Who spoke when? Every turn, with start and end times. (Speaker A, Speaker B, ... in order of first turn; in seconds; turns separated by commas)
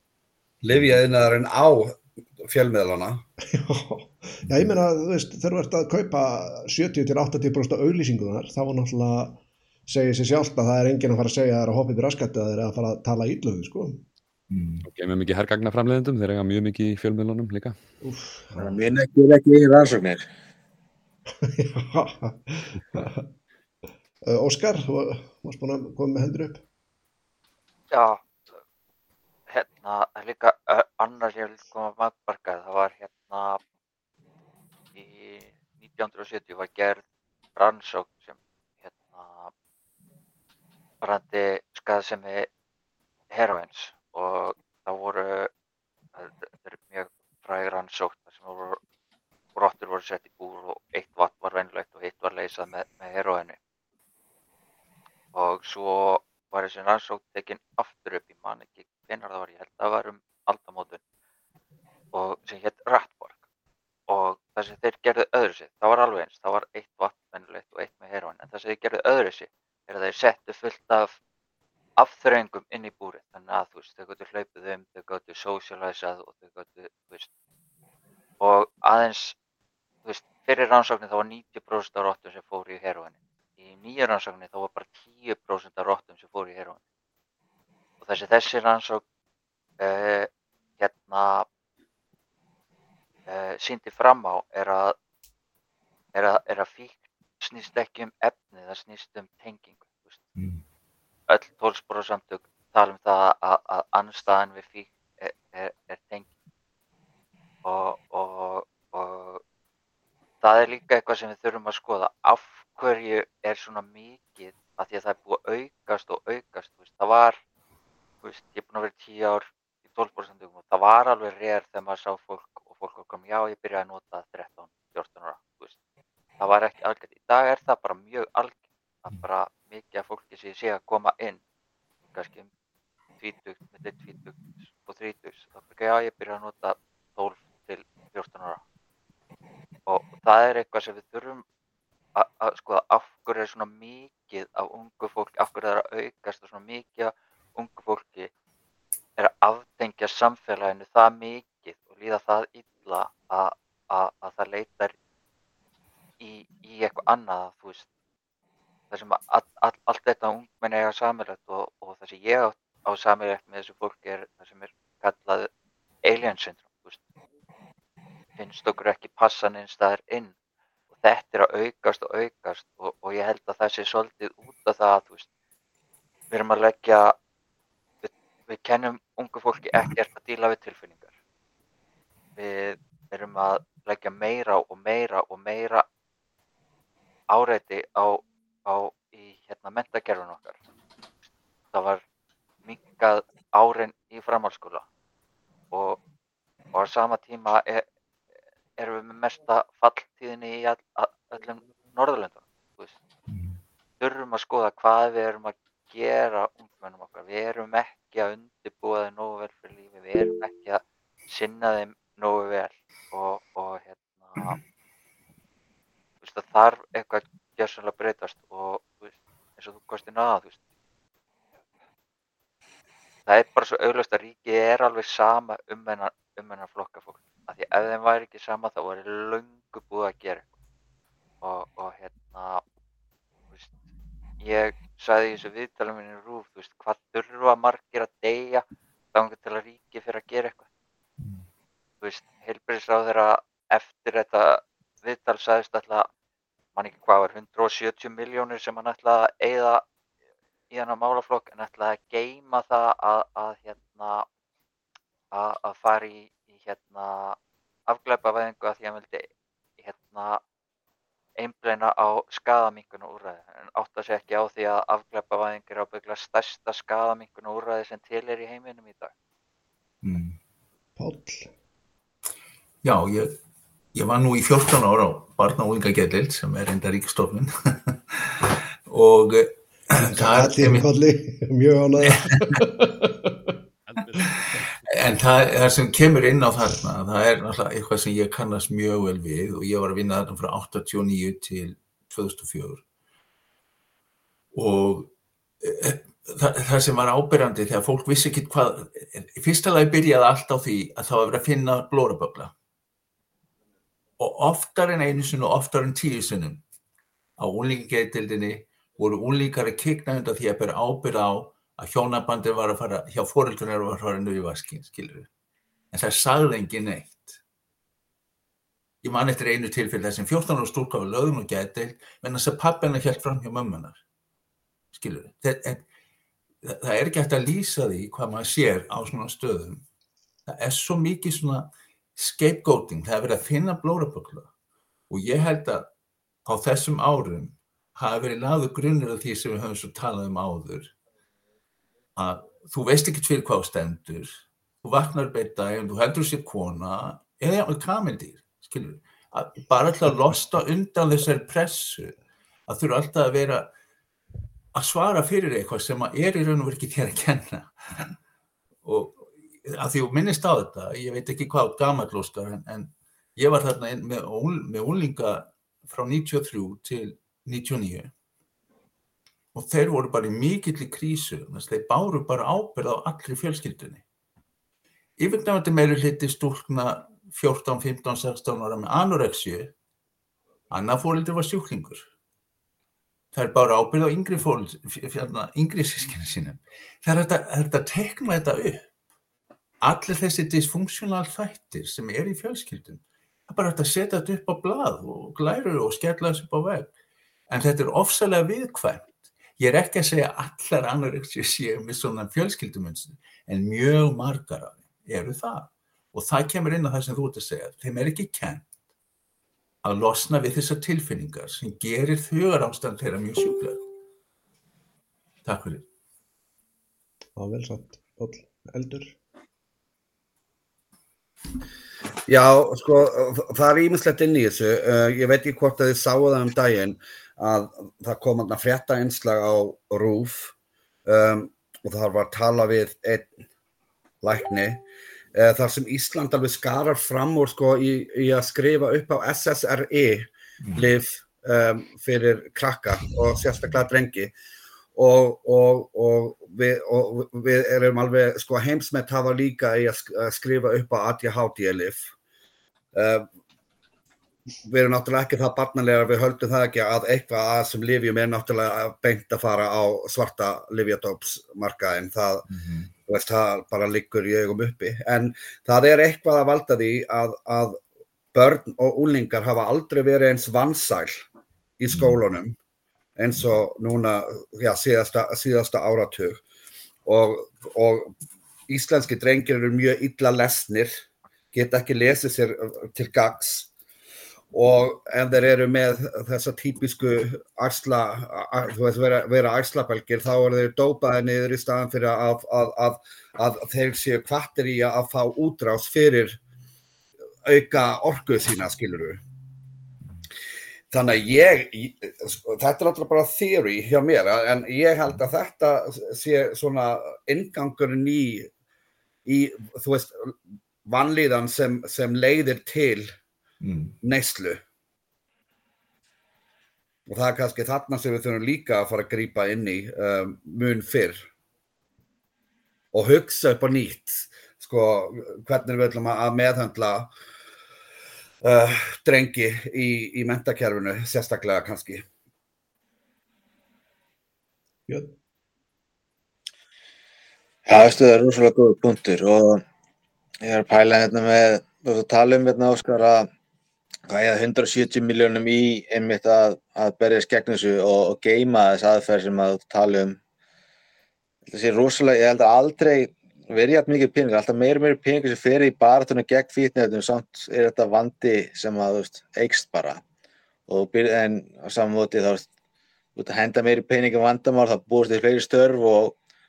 Speaker A: 0.6-3.2, Speaker B: 0.7-1.0, Speaker C: 3.5-14.0, Speaker B: 14.5-14.9, Speaker D: 14.8-17.8, Speaker C: 18.0-18.7, Speaker E: 18.6-20.2, Speaker C: 21.4-23.3, Speaker C: 24.2-26.6, Speaker F: 27.9-28.3, Speaker F: 29.5-33.6, Speaker F: 35.0-37.0, Speaker F: 37.5-39.5, Speaker F: 41.0-42.5, Speaker F: 43.3-45.5, Speaker F: 46.2-48.8, Speaker F: 49.6-53.6, Speaker F: 55.3-61.0, Speaker F: 62.1-63.4, Speaker F: 64.1-71.2, Speaker F: 72.0-77.3, Speaker F: 78.4-79.4, Speaker F: 80.0-86.8, Speaker F: 88.0-89.0, Speaker F: 89.8-91.5, Speaker F: 93.3-95.0, Speaker F: 96.1-100.2, Speaker B: 100.4-100.6, Speaker F: 101.3-106.3, Speaker F: 107.6-109.4, Speaker F: 110.4-117.4, Speaker F: 118.2-125.8, Speaker F: 126.4-131.4, Speaker F: 132.1-132.5, Speaker F: 133.2-138.6, Speaker F: 139.9-141.4, Speaker F: 142.2-148.3, Speaker F: 149.2-154.9, Speaker F: 156.2-157.9, Speaker F: 158.9-165.5, Speaker F: 166.0-167.1, Speaker F: 168.4-170.3, Speaker F: 171.0-175.3, Speaker F: 176.3-177.2, Speaker F: 178.0-181.1, Speaker F: 182.4-185.8, Speaker F: 187.3-190.6, Speaker F: 191.7-192.0, Speaker F: 192.7-194.8, Speaker F: 195.7-196.0, Speaker F: 196.7-197.8, Speaker F: 198.8-203.0, Speaker B: 203.3-203.6, Speaker F: 204.0-214.6, Speaker F: 216.2-220.6, Speaker F: 223.3-230.5, Speaker F: 231.4-232.6, Speaker F: 234.4-240.7, Speaker B: 241.2-241.5, Speaker F: 242.0-246.1, Speaker F: 246.8-249.8, Speaker F: 250.7-254.3, Speaker F: 255.3-257.4, Speaker F: 257.9-259.3, Speaker F: 259.8-260.4, Speaker F: 261.4-269.1, Speaker B: 270.0-270.4, Speaker C: 271.0-271.5, Speaker B: 272.8-273.4, Speaker B: 273.9-280.9, Speaker C: 280.1-283.6, Speaker B: 282.0-282.6, Speaker D: 284.0-284.3, Speaker B: 284.9-292.8, Speaker B: 294.5-302.5, Speaker B: 304.2-306.6, Speaker B: 307.4-315.3, Speaker B: 315.9-317.4, Speaker B: 319.0-324.0, Speaker B: 324.9-325.9, Speaker B: 326.6-329.8, Speaker B: 330.5-334.5, Speaker B: 335.1-335.9, Speaker B: 336.4-340.9, Speaker B: 342.2-353.7, Speaker B: 354.7-358.1, Speaker B: 358.8-368.1, Speaker B: 369.5-374.0, Speaker B: 375.2-379.7, Speaker B: 380.7-382.1, Speaker B: 383.3-388.9, Speaker B: 389.8-396.9, Speaker B: 397.5-408.7, Speaker B: 409.8-413.8, Speaker B: 415.4-415.9, Speaker C: 417.4-419.2, Speaker A: 422.3-430.5, Speaker A: 431.1-433.3, Speaker A: 434.2-444.3, Speaker B: 440.6-441.0, Speaker A: 445.0-452.1, Speaker A: 452.9-453.3, Speaker A: 454.7-462.5, Speaker B: 462.5-462.9, Speaker A: 463.1-467.8, Speaker A: 468.3-471.2, Speaker A: 471.8-472.6, Speaker B: 471.9-472.2, Speaker A: 473.2-476.4, Speaker A: 477.1-478.1, Speaker A: 478.7-481.0, Speaker A: 481.5-483.7, Speaker A: 484.5-496.4, Speaker A: 497.5-499.2, Speaker A: 500.9-508.5, Speaker A: 509.3-513.1, Speaker B: 513.6-514.0, Speaker A: 514.0-514.6, Speaker A: 517.1-521.3, Speaker A: 522.9-527.1, Speaker A: 528.4-532.0, Speaker C: 534.9-535.1, Speaker E: 537.7-539.6, Speaker E: 540.4-543.3, Speaker E: 544.1-550.2, Speaker E: 551.5-560.0, Speaker E: 560.7-562.5, Speaker E: 563.2-566.2